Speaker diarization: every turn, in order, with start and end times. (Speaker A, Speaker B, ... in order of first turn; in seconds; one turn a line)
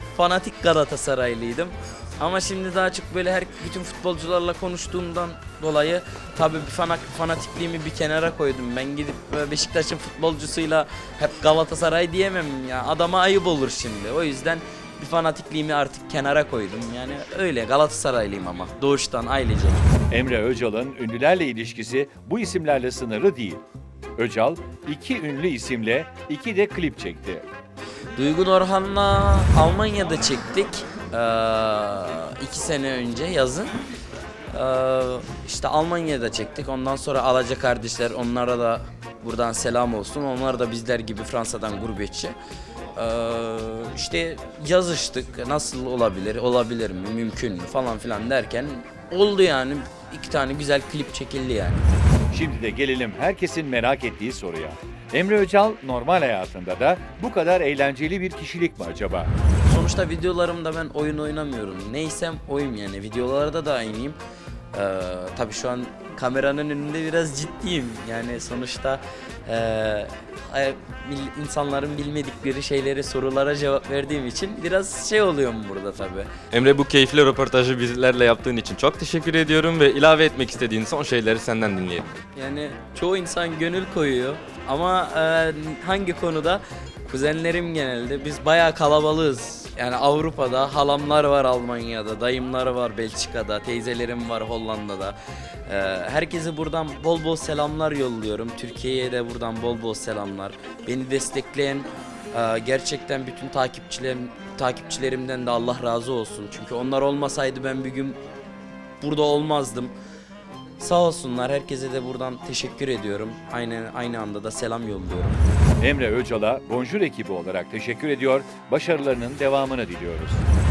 Speaker A: 0.1-19.9
Speaker B: 20.1-23.6
Speaker B: 24.2-27.4
Speaker A: 28.1-33.7
Speaker A: 34.5-42.3
Speaker A: 42.9-51.9
Speaker B: 52.3-59.3
Speaker A: 59.6-64.2
Speaker A: 64.7-76.3
Speaker C: 76.5-82.1
Speaker A: 82.3-108.2
Speaker A: 109.0-109.9
Speaker A: 110.8-115.4
Speaker B: 115.8-120.4